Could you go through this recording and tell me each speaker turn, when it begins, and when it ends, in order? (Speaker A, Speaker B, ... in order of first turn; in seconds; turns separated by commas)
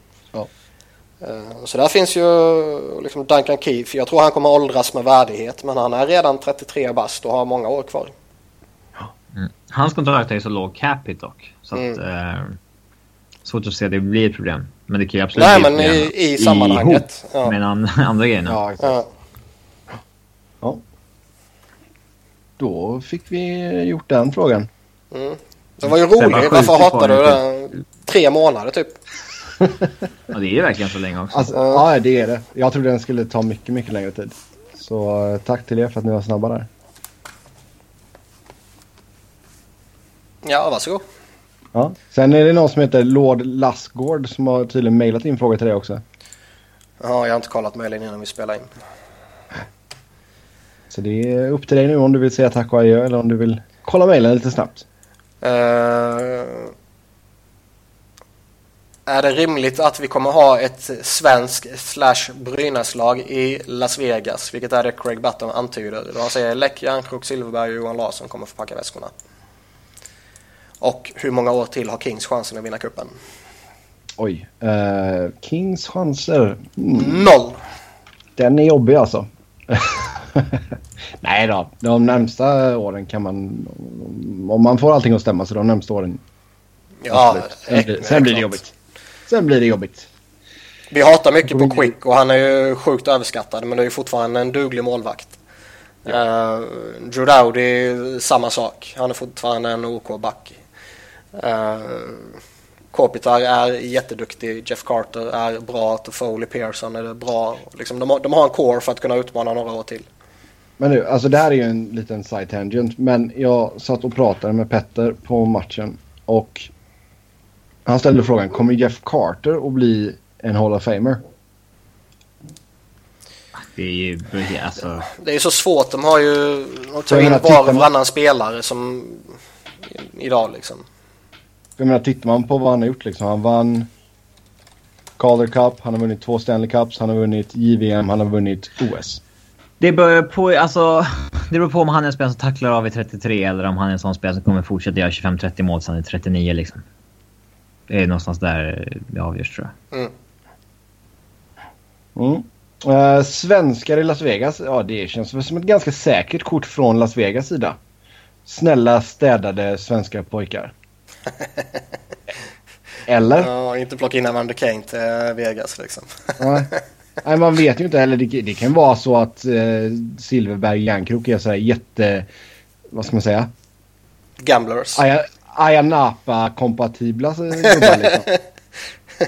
Speaker A: 1.2-8.1, Speaker B: 9.3-12.6, Speaker A: 11.8-12.0, Speaker B: 13.4-18.6, Speaker A: 15.4-17.6, Speaker C: 18.5-19.0, Speaker A: 18.8-19.1, Speaker C: 22.6-24.7, Speaker A: 25.1-29.0, Speaker B: 26.2-27.4, Speaker B: 30.3-31.5, Speaker C: 31.3-36.7, Speaker A: 31.5-31.9, Speaker A: 40.4-41.0, Speaker C: 41.7-46.0, Speaker A: 47.0-48.7, Speaker C: 50.9-54.8, Speaker A: 55.4-56.7, Speaker A: 59.1-69.1, Speaker A: 70.8-73.1, Speaker C: 74.2-77.2, Speaker A: 76.9-77.6, Speaker C: 78.4-80.6, Speaker C: 81.2-86.2, Speaker A: 87.0-88.6, Speaker C: 87.1-88.7, Speaker C: 89.3-90.1, Speaker A: 90.9-95.3, Speaker A: 96.0-100.6, Speaker A: 101.4-102.3, Speaker A: 102.9-110.1, Speaker C: 110.8-116.7, Speaker C: 117.9-121.2, Speaker B: 123.5-125.1, Speaker A: 125.1-129.3, Speaker C: 127.1-127.9, Speaker A: 129.9-130.8, Speaker C: 131.8-133.9, Speaker C: 135.2-139.2, Speaker B: 139.8-146.8, Speaker B: 147.9-149.7, Speaker C: 152.2-157.8, Speaker C: 158.4-160.7, Speaker C: 163.1-163.5, Speaker A: 163.4-166.8, Speaker C: 166.4-166.7, Speaker C: 167.2-172.3, Speaker C: 172.9-173.5, Speaker A: 174.4-175.0, Speaker C: 174.9-178.3, Speaker A: 177.6-178.4